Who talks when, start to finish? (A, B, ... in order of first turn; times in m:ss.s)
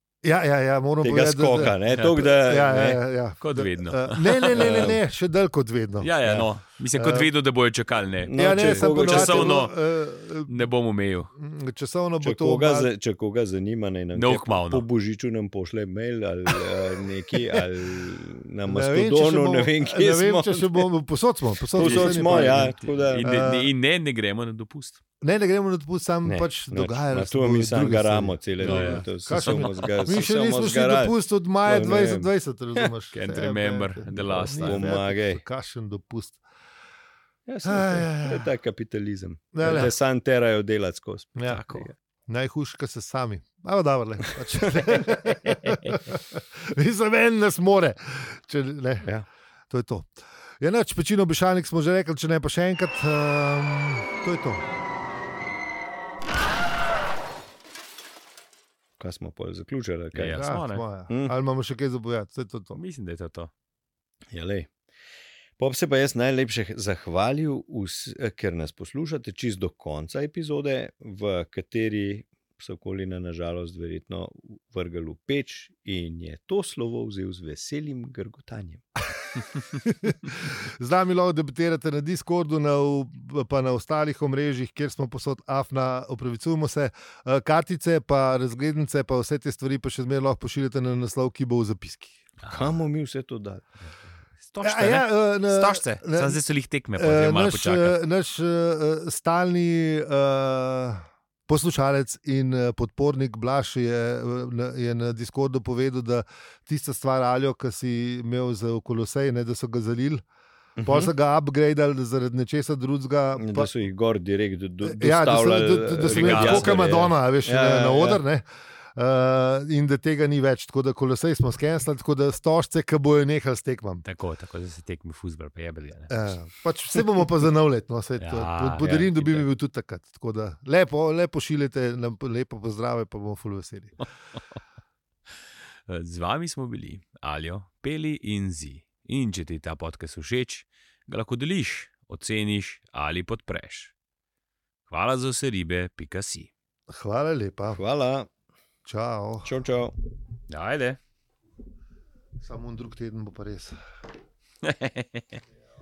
0:00.2-0:06.1 A
0:01.0-0:03.0 B
0:01.9-0:02.2 C
0:03.4-0:05.0 C
0:04.5-0:05.0 B
0:06.0-0:09.7 C
0:07.0-0:07.3 A
0:08.2-0:09.6 B
0:08.3-0:10.7 A
0:10.5-0:11.3 C
0:11.4-0:12.9 A
0:12.2-0:20.9 B
0:14.1-0:14.8 C
0:18.7-0:23.7 A
0:21.7-0:23.6 B
0:21.8-0:25.0 C
0:25.2-0:36.4 A
0:26.2-0:32.9 B
0:28.6-0:30.2 C
0:33.1-0:34.9 C
0:34.6-0:35.4 B
0:37.5-0:41.9 B
0:37.6-0:38.5 A
0:39.5-0:39.9 A
0:41.4-0:41.7 A
0:41.5-0:41.9 C
0:42.3-0:49.1 A
0:44.6-0:45.1 B
0:49.7-0:54.6 A
0:59.0-1:00.4 B
1:00.1-1:00.9 C
1:00.4-1:02.8 A
1:02.7-1:03.5 C
1:04.3-1:04.7 B
1:05.6-1:18.8 B
1:19.8-1:32.2 A
1:32.4-1:32.7 C
1:32.5-1:33.7 B
1:34.4-1:38.0 C
1:34.6-1:36.4 A
1:37.0-1:50.2 A
1:50.8-1:51.1 B
1:50.8-1:53.7 A
1:53.4-1:58.2 B
1:54.8-2:04.0 A
1:56.1-1:56.8 C
2:04.0-2:06.1 C
2:06.1-2:14.0 A
2:08.2-2:09.5 C
2:15.9-2:23.9 C
2:24.9-2:26.5 C
2:26.9-2:27.8 A
2:27.8-2:28.3 B
2:28.9-2:29.5 A
2:29.4-2:29.9 B
2:30.5-2:31.0 C
2:32.4-2:33.8 A
2:34.6-2:35.4 C